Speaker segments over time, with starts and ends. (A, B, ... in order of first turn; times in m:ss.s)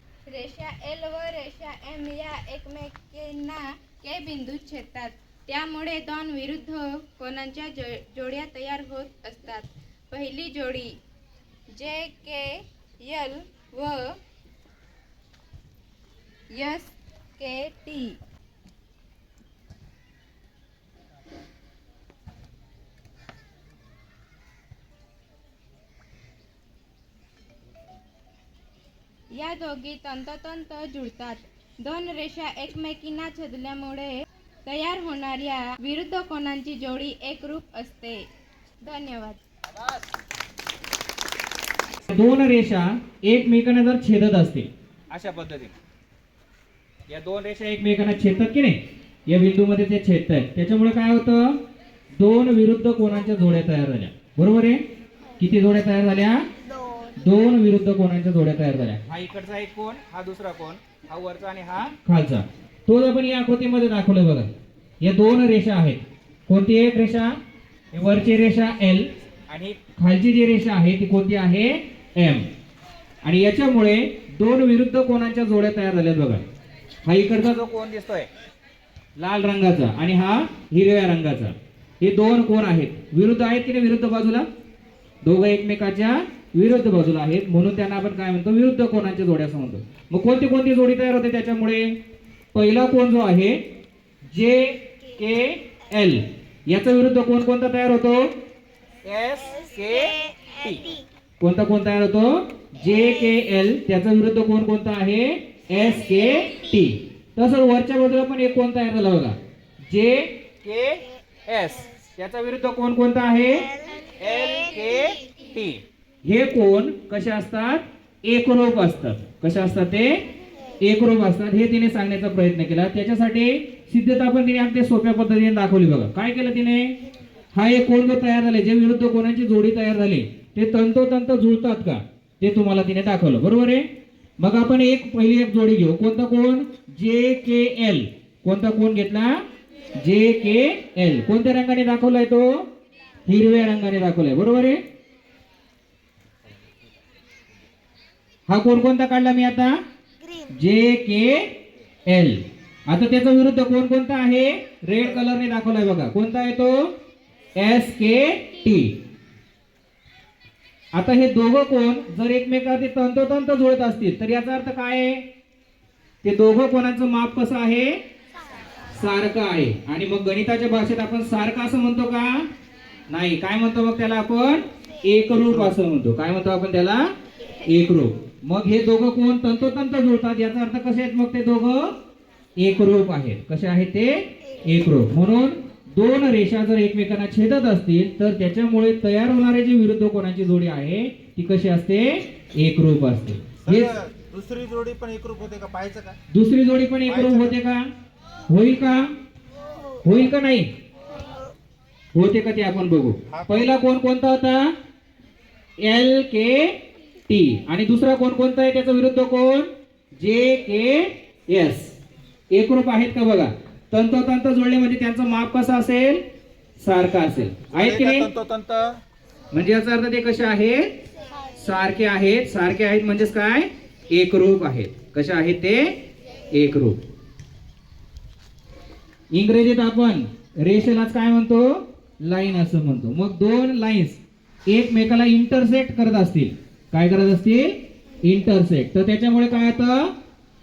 0:00.3-0:11.0 A
0:11.7-0:14.2 A
0:16.5-0:18.2 A
0:29.4-0:38.2 A
0:38.8-0:39.4 A
0:42.0-0:45.7 B
0:47.1-0:51.6 B
0:52.1-0:54.8 B
0:55.4-0:56.4 B
0:57.2-1:04.5 B
1:05.0-1:07.3 B
1:07.9-1:12.4 B
1:13.2-1:16.4 B
1:17.0-1:18.3 B
1:19.2-1:24.4 B
1:25.2-1:31.9 B
1:32.5-1:33.6 B
1:34.3-1:38.2 B
1:39.0-1:40.8 B
1:41.4-2:00.2 B
2:00.8-2:06.9 B
2:07.5-2:13.8 B
2:14.4-2:19.4 B
2:19.9-2:22.6 B
2:23.2-2:24.8 B
2:28.5-2:29.8 B
2:30.5-2:31.5 B
2:32.0-2:36.9 B
2:37.5-2:39.0 B
2:40.9-2:45.2 B
2:46.2-2:48.0 B
2:48.9-2:52.4 B
2:53.1-2:57.1 B
2:57.6-3:02.0 B
3:02.6-3:14.0 B
3:13.6-3:16.2 C
3:16.3-3:17.8 B
3:17.1-3:17.5 C
3:18.5-3:19.1 B
3:20.0-3:20.7 B
3:22.1-3:24.7 B
3:23.3-3:23.6 C
3:25.8-3:31.9 B
3:32.5-3:36.2 B
3:36.8-3:38.3 B
3:37.7-3:39.0 C
3:39.5-3:40.9 B
3:41.5-3:46.0 B
3:46.5-3:47.0 B
3:49.3-4:00.1 B